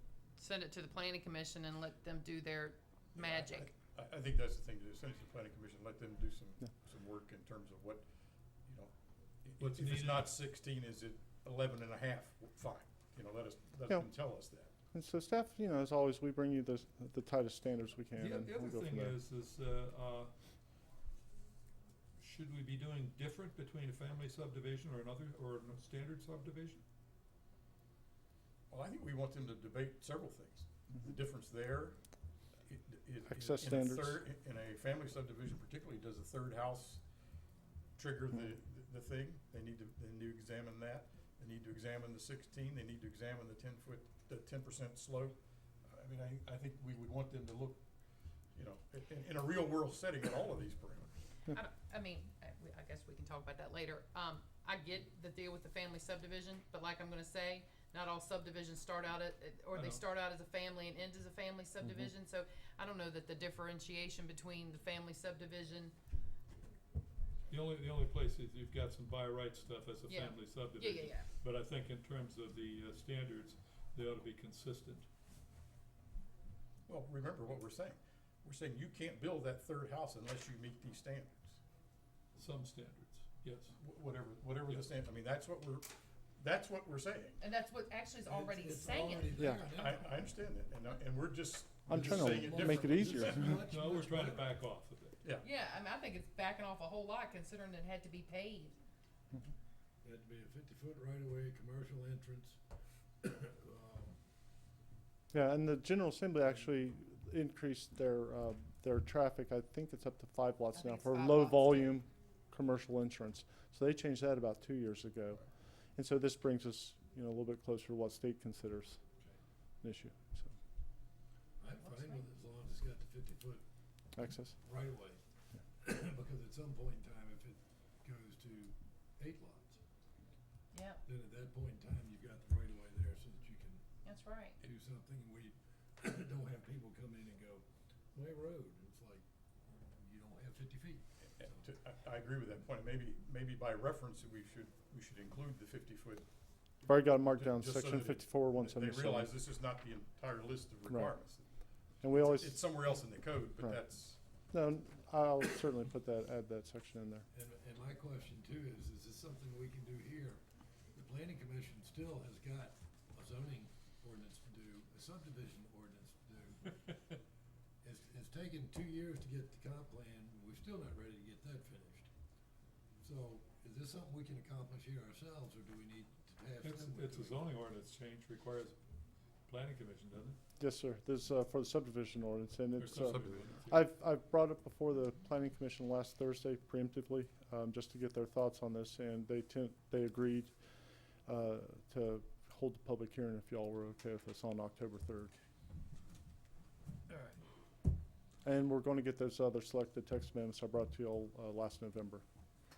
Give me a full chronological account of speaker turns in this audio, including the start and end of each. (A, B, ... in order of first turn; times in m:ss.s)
0:00.4-0:03.7 A
0:03.1-0:08.1 B
0:08.6-0:14.7 B
0:09.6-0:10.3 C
0:14.9-0:19.2 D
0:18.2-0:20.3 C
0:22.2-0:26.8 C
0:28.7-0:32.0 B
0:32.6-0:37.0 B
0:33.3-0:34.2 D
0:38.0-0:47.8 B
0:48.5-0:51.2 B
0:51.5-1:05.9 A
0:59.7-1:00.0 C
1:07.5-1:15.1 C
1:10.1-1:11.3 A
1:16.9-1:21.6 B
1:22.3-1:23.8 C
1:23.8-1:27.4 B
1:27.4-1:29.4 A
1:28.2-1:30.3 E
1:29.4-1:29.6 D
1:29.7-1:33.6 B
1:31.9-1:33.6 D
1:31.9-1:34.6 E
1:33.7-1:35.2 C
1:35.4-1:38.7 A
1:40.0-1:42.6 E
1:43.2-1:44.2 E
1:45.3-1:59.0 D
1:50.7-1:51.9 A
1:59.8-2:00.5 D
2:01.6-2:03.6 E
2:01.8-2:02.2 A
2:04.1-2:04.6 D
2:04.6-2:05.2 E
2:05.7-2:09.8 E
2:10.7-2:11.0 A
2:11.0-2:13.8 E
2:14.0-2:14.6 A
2:14.6-2:19.2 E
2:19.8-2:21.7 E
2:21.3-2:26.3 B
2:26.8-2:31.5 B
2:26.8-2:29.3 D
2:30.9-2:31.2 D
2:32.0-2:32.6 D
2:32.0-2:34.2 B
2:34.5-2:37.2 D
2:37.3-2:40.4 E
2:40.9-2:47.2 E
2:47.8-2:52.1 E
2:53.0-2:57.5 E
2:56.6-2:58.8 C
2:59.5-3:00.4 C
3:00.6-3:10.5 D
3:02.8-3:03.8 C
3:03.1-3:03.5 B
3:11.2-3:15.3 D
3:17.1-3:17.4 E
3:18.4-3:22.2 D